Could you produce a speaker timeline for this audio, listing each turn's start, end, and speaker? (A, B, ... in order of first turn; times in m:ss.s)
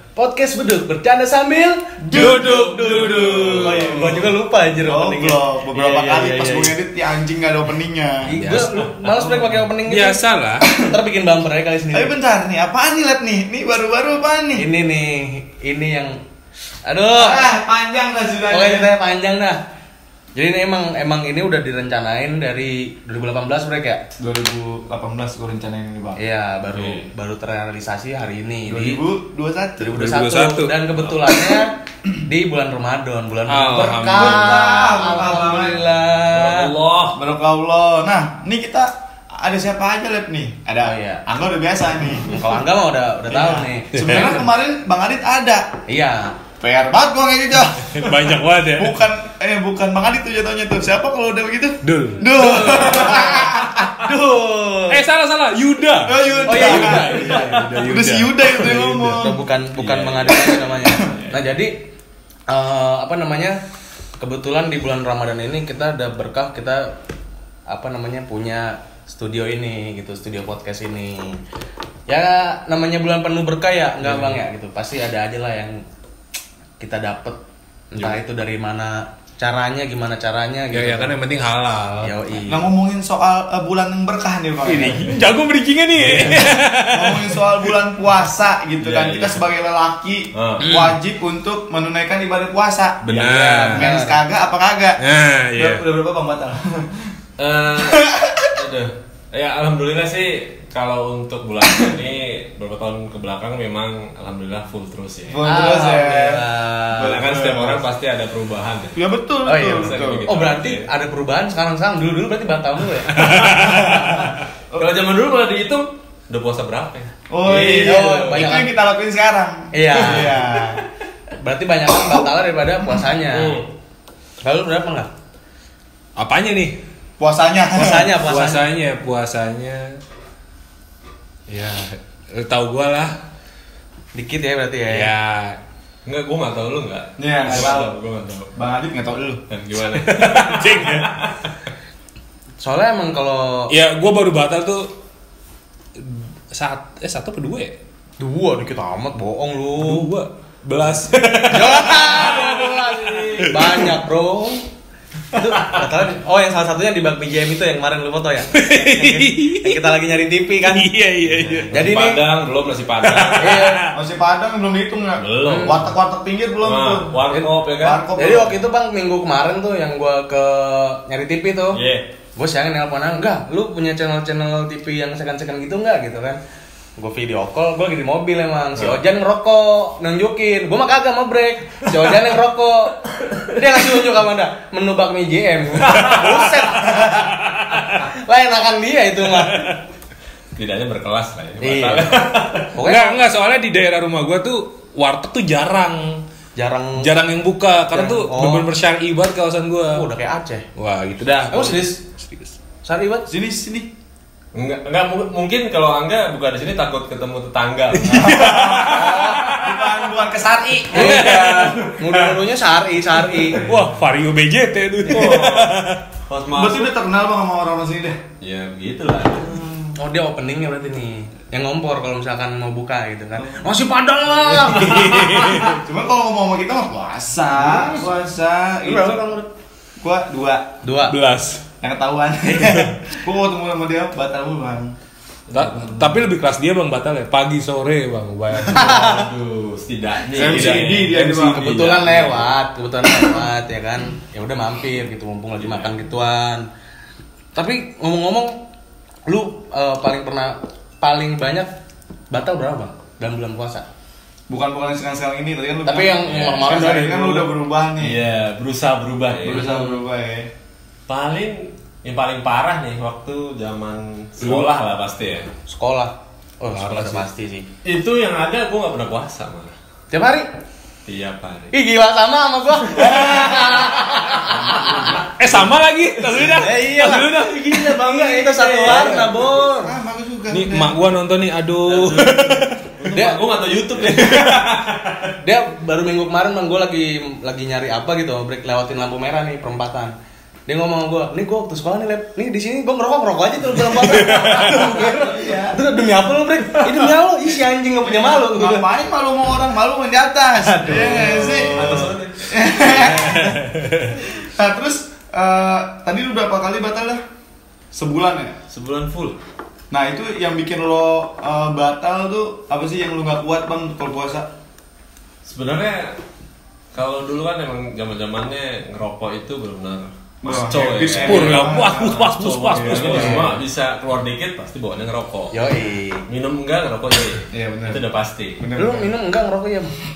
0:00.2-0:06.7 A
0:02.0-0:04.2 B
0:02.1-0:04.2 C
0:04.8-0:08.5 B
0:08.2-0:10.2 A
0:08.4-0:10.6 C
0:10.8-0:12.1 A
0:11.9-0:14.6 B
0:14.6-0:16.2 A
0:16.8-0:17.5 A
0:17.1-0:18.9 B
0:18.5-0:19.6 A
0:20.3-0:24.0 A
0:24.2-0:26.2 B
0:26.2-0:29.0 A
0:26.7-0:27.1 D
0:28.7-0:30.0 B
0:29.8-0:36.7 A
0:29.9-0:30.7 C
0:33.5-0:35.4 C
0:33.8-0:35.8 B
0:36.3-0:37.2 C
0:37.1-0:42.4 B
0:40.8-0:41.2 A
0:42.2-0:44.5 A
0:43.3-0:45.7 B
0:44.0-0:44.3 C
0:45.9-0:46.4 A
0:46.6-0:53.9 B
0:47.9-0:49.0 C
0:51.8-0:52.8 C
0:52.3-0:55.0 A
0:54.9-0:59.2 C
0:56.0-0:59.4 B
0:56.4-0:57.6 A
0:59.2-1:01.8 A
0:59.8-1:01.4 D
1:02.5-1:03.6 A
1:04.2-1:07.0 A
1:07.7-1:11.4 A
1:12.1-1:15.8 A
1:14.0-1:14.4 C
1:16.8-1:17.4 A
1:17.9-1:21.2 A
1:20.7-1:22.1 C
1:21.8-1:22.7 A
1:22.5-1:25.1 B
1:24.6-1:27.7 C
1:26.1-1:37.1 B
1:28.8-1:29.4 D
1:30.3-1:30.7 D
1:30.6-1:31.0 C
1:33.0-1:33.9 C
1:33.1-1:34.2 A
1:35.0-1:35.8 C
1:37.4-1:45.4 D
1:37.8-1:38.5 B
1:45.3-1:46.4 B
1:45.4-1:47.2 A
1:47.0-1:49.0 D
1:47.0-1:47.8 B
1:48.9-1:50.3 B
1:49.5-1:54.3 A
1:49.6-1:50.9 D
1:53.1-1:54.3 C
1:54.7-1:58.6 D
1:57.3-2:00.8 B
1:57.6-1:58.6 A
1:59.7-2:00.4 A
2:00.0-2:00.4 D
2:01.4-2:03.6 A
2:02.0-2:02.2 B
2:03.3-2:03.6 D
2:04.4-2:05.1 A
2:06.2-2:06.8 C
2:07.2-2:08.1 B
2:07.7-2:08.7 A
2:08.2-2:10.0 C
2:11.5-2:13.2 C
2:14.1-2:15.1 A
2:14.9-2:15.6 C
2:16.0-2:18.5 D
2:17.2-2:18.0 B
2:18.5-2:19.4 B
2:19.5-2:21.5 D
2:19.9-2:21.2 C
2:22.6-2:23.7 A
2:23.7-2:24.9 C
2:26.0-2:27.8 C
2:28.2-2:30.1 A
2:29.8-2:33.9 C
2:31.4-2:34.6 A
2:31.9-2:33.5 D
2:35.3-2:40.9 A
2:38.5-2:40.0 C
2:40.6-2:41.9 C
2:41.3-2:43.6 D
2:41.7-2:42.2 A
2:43.0-2:44.0 C
2:43.4-2:43.8 A
2:43.9-2:47.1 B
2:45.2-2:45.9 D
2:45.4-2:45.8 A
2:46.6-2:48.1 D
2:47.8-2:48.5 B
2:48.1-2:51.8 A
2:51.7-2:52.0 D
2:52.4-2:56.4 A
2:57.0-3:07.4 A
3:05.8-3:06.4 D
3:06.0-3:07.9 C
3:07.9-3:09.8 A
3:09.4-3:09.7 C
3:10.6-3:12.7 D
3:11.6-3:13.2 A
3:12.8-3:16.2 C
3:16.6-3:17.1 A
3:17.0-3:20.0 C
3:17.9-3:18.7 A
3:19.9-3:20.7 A
3:20.8-3:22.5 C
3:21.5-3:22.0 A
3:22.8-3:23.3 A
3:23.3-3:23.9 B
3:24.5-3:28.5 D
3:27.9-3:29.8 C
3:28.0-3:31.8 B
3:30.9-3:32.2 C
3:30.9-3:33.7 A
3:31.3-3:31.6 D
3:33.4-3:36.0 C
3:35.0-3:35.7 D
3:36.3-3:36.9 D
3:36.5-3:38.2 B
3:38.4-3:39.5 D
3:39.4-3:40.0 B
3:40.0-3:45.7 A
3:44.6-3:45.7 D
3:44.7-3:45.8 C
3:45.8-3:49.3 B
3:47.7-3:48.0 A
3:48.8-3:49.5 A
3:50.0-3:50.7 B
3:50.8-3:51.2 A
3:51.0-3:51.6 C
3:51.8-3:54.9 B
3:52.5-3:52.9 C
3:55.5-3:56.2 D
3:55.5-3:59.2 C
3:58.7-4:01.2 D
3:58.7-3:59.2 A
4:00.3-4:02.4 B
4:00.7-4:01.8 C
4:01.1-4:06.7 A
4:05.6-4:05.9 D
4:07.5-4:08.6 A
4:09.3-4:11.7 A
4:12.3-4:13.9 A
4:14.5-4:18.2 B
4:15.8-4:17.5 A
4:16.2-4:16.8 D
4:18.0-4:19.7 D
4:19.4-4:20.5 B
4:19.5-4:20.0 A
4:21.1-4:25.5 D
4:25.7-4:27.7 A
4:26.7-4:27.2 C
4:27.8-4:29.7 D
4:30.1-4:30.5 A
4:31.0-4:31.7 D
4:31.7-4:35.2 A
4:33.0-4:33.3 D
4:34.4-4:36.6 D
4:35.4-4:38.0 C
4:36.6-4:39.9 A
4:37.2-4:39.3 D
4:38.8-4:39.5 C
4:39.7-4:41.0 B
4:40.5-4:42.8 C
4:41.9-4:45.3 D
4:43.1-4:43.4 A
4:44.1-4:44.6 C
4:45.4-4:50.1 A
4:50.7-4:58.9 A
4:54.0-4:54.9 C
4:54.6-4:55.8 B
4:58.0-5:07.2 B
5:00.6-5:02.1 A
5:00.9-5:03.4 D
5:03.1-5:04.2 C
5:07.9-5:08.6 B
5:08.7-5:09.4 D
5:09.9-5:14.5 B
5:15.4-5:16.2 D
5:16.9-5:25.5 D
5:20.4-5:23.6 B
5:21.2-5:23.4 C
5:23.0-5:23.5 A
5:25.5-5:26.2 A
5:26.3-5:28.6 D
5:27.5-5:28.0 B
5:28.6-5:29.1 B
5:28.7-5:29.9 A